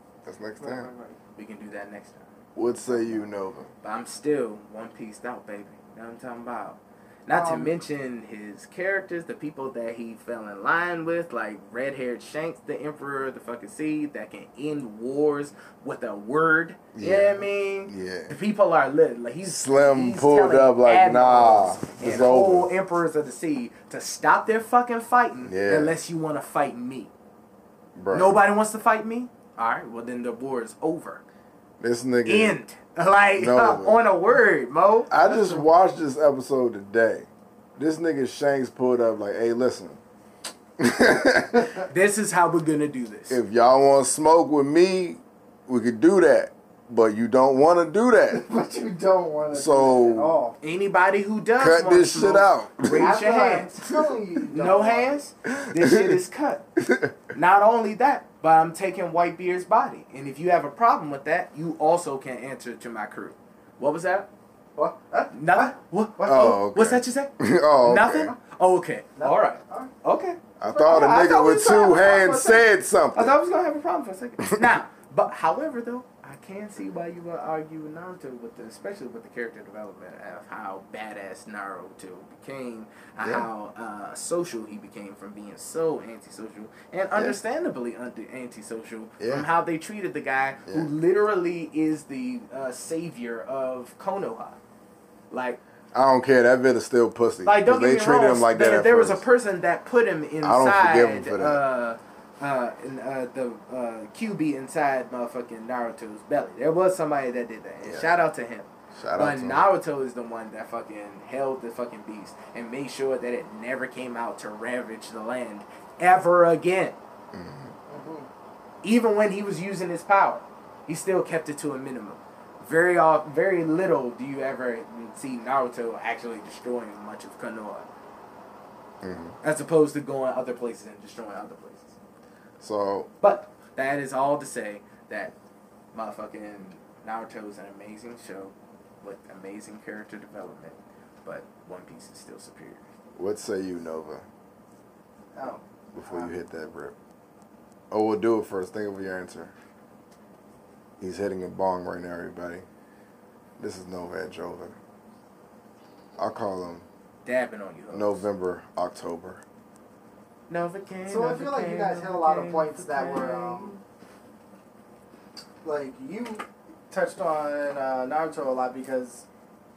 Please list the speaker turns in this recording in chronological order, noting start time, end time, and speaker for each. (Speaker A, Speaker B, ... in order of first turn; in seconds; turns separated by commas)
Speaker A: 0.2-0.9, Speaker B: 0.6-1.2, Speaker C: 1.3-2.3, Speaker A: 2.5-3.7, Speaker B: 2.9-3.2, Speaker C: 3.8-27.1, Speaker B: 7.3-7.8, Speaker A: 16.9-18.3, Speaker A: 19.4-22.7, Speaker A: 25.4-25.9, Speaker A: 28.0-28.4, Speaker C: 28.1-31.2, Speaker A: 31.8-32.6, Speaker C: 32.2-35.2, Speaker A: 33.3-34.0, Speaker A: 35.1-40.0, Speaker B: 35.2-35.6, Speaker A: 40.8-41.7, Speaker C: 41.9-43.4, Speaker A: 43.3-48.4, Speaker B: 48.3-50.6, Speaker A: 49.5-50.3, Speaker C: 50.6-53.8, Speaker A: 51.6-53.1, Speaker B: 52.9-55.2, Speaker C: 54.5-56.7, Speaker A: 55.5-56.2, Speaker A: 56.8-57.1, Speaker C: 57.3-64.3, Speaker B: 64.8-66.3, Speaker C: 65.3-94.6, Speaker A: 66.2-68.3, Speaker B: 69.2-69.9, Speaker A: 70.6-73.3, Speaker A: 83.2-83.5, Speaker A: 89.2-89.5, Speaker C: 95.3-95.6, Speaker A: 95.9-99.2, Speaker C: 97.4-117.0, Speaker A: 100.4-101.6, Speaker A: 107.8-108.1, Speaker A: 108.9-109.7, Speaker A: 117.3-117.7, Speaker B: 117.9-118.3, Speaker C: 118.8-127.9, Speaker A: 129.0-129.4, Speaker C: 129.4-131.9, Speaker A: 132.6-133.1, Speaker C: 133.2-135.3, Speaker C: 135.9-142.8, Speaker A: 143.2-144.2, Speaker B: 145.3-146.3, Speaker A: 145.9-146.9, Speaker A: 147.9-149.5, Speaker A: 151.0-152.7, Speaker A: 153.6-154.8, Speaker A: 156.2-156.8, Speaker C: 157.2-158.3, Speaker A: 157.9-159.4, Speaker C: 160.5-163.8, Speaker B: 161.1-163.7, Speaker B: 165.6-169.2